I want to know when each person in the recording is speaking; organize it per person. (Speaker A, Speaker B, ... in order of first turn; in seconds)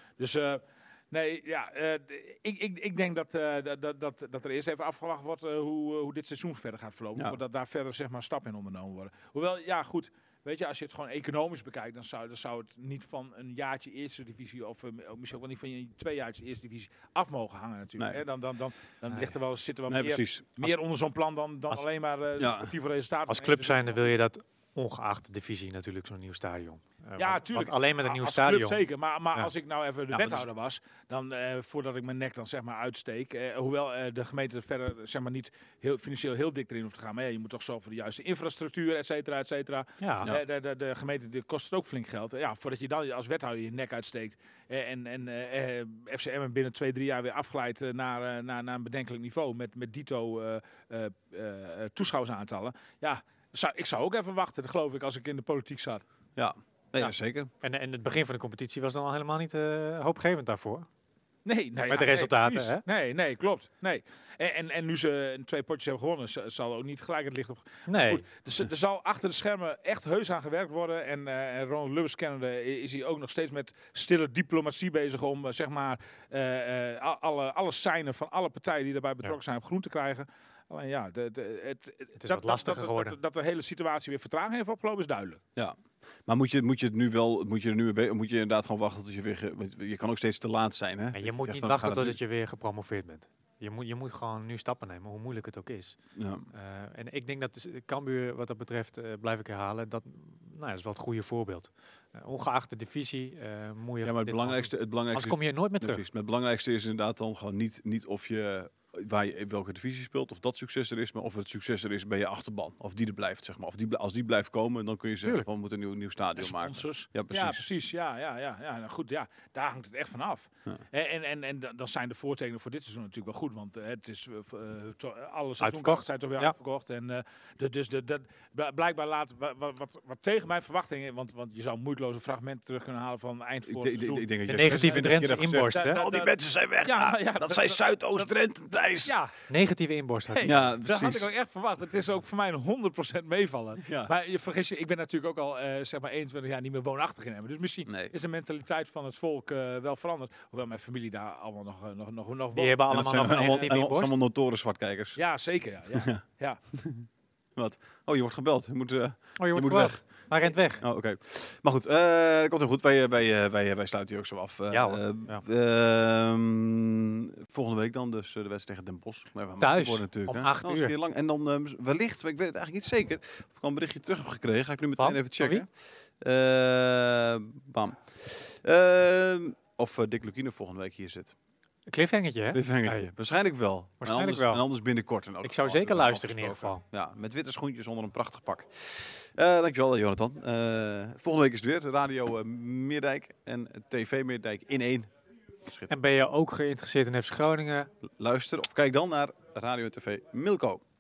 Speaker A: 0.2-24.1, 27.2-56.0, 61.4-85.4, 116.4-138.3, 139.0-139.3, 140.3-153.5, 155.2-156.6
Speaker B: 18.0-18.2, 19.9-20.7, 22.4-22.7, 56.4-57.5, 85.5-92.2, 96.1-96.5, 104.0-117.7, 133.7-139.1, 140.4-141.3, 143.8-144.1, 147.9-148.1, 152.9-155.2, 155.9-156.2, 156.7-160.0, 160.8-181.3, 182.5-195.1, 195.7-195.9, 198.0-200.8
Speaker C: 19.1-19.3, 23.3-28.8, 30.1-30.4, 40.0-40.3, 57.0-60.9, 61.9-62.8, 67.9-68.2, 82.2-83.2, 91.1-96.0, 96.5-106.0, 125.6-126.5, 134.4-136.0, 139.5-140.7, 152.6-154.1, 159.4-160.8, 164.7-165.4, 169.6-170.9, 175.0-175.6, 181.9-183.1, 184.0-184.6, 185.4-186.8, 195.9-197.9